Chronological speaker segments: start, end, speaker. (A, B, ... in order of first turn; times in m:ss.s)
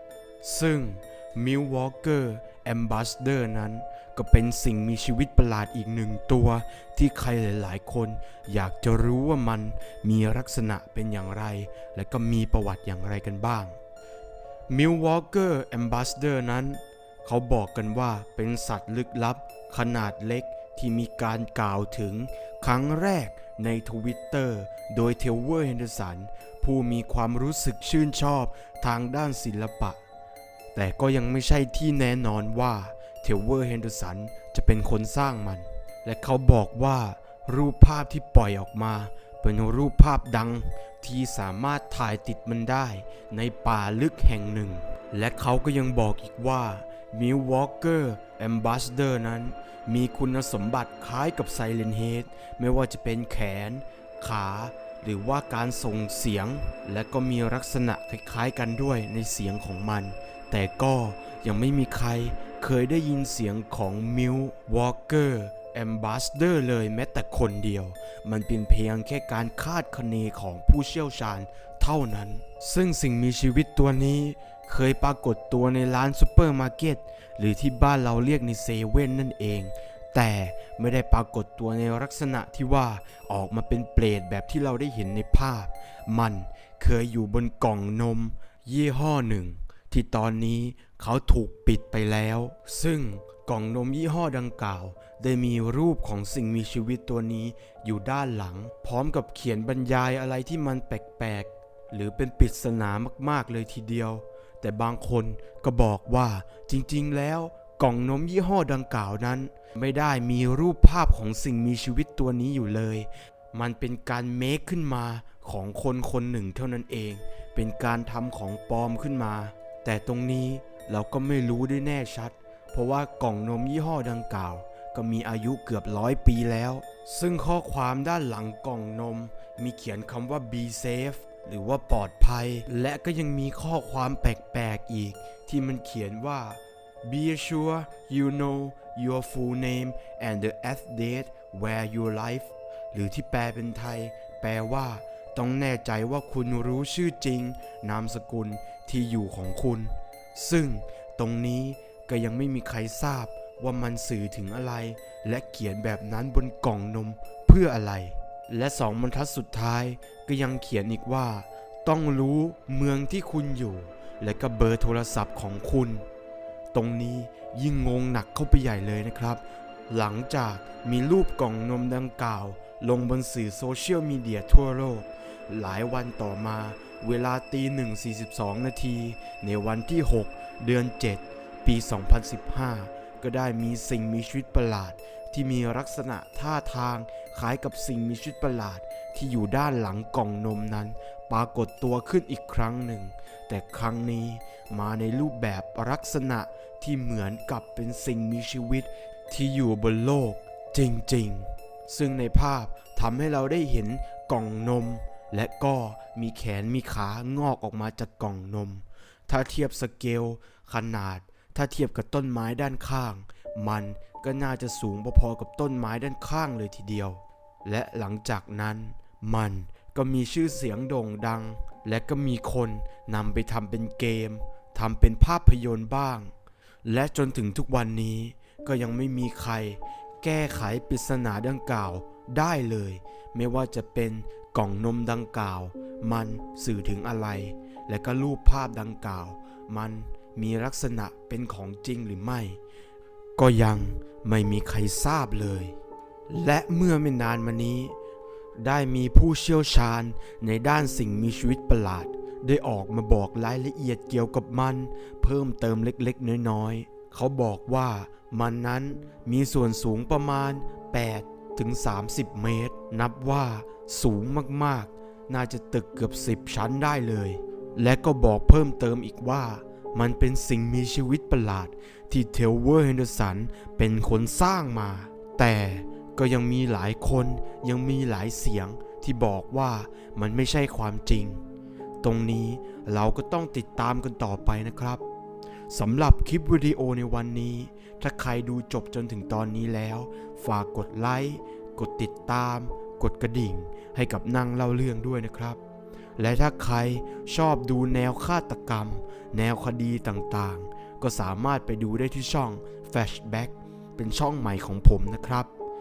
0:00.4-0:13.8 A
0:14.7-0:30.0 A
0:30.7-2:46.1 A
2:46.7-3:46.3 A
3:46.8-4:02.6 A
4:03.4-4:05.8 A
4:06.3-4:08.0 A
4:08.6-4:41.4 A
4:42.0-4:45.0 A
4:45.7-4:55.6 A
4:56.2-5:05.5 A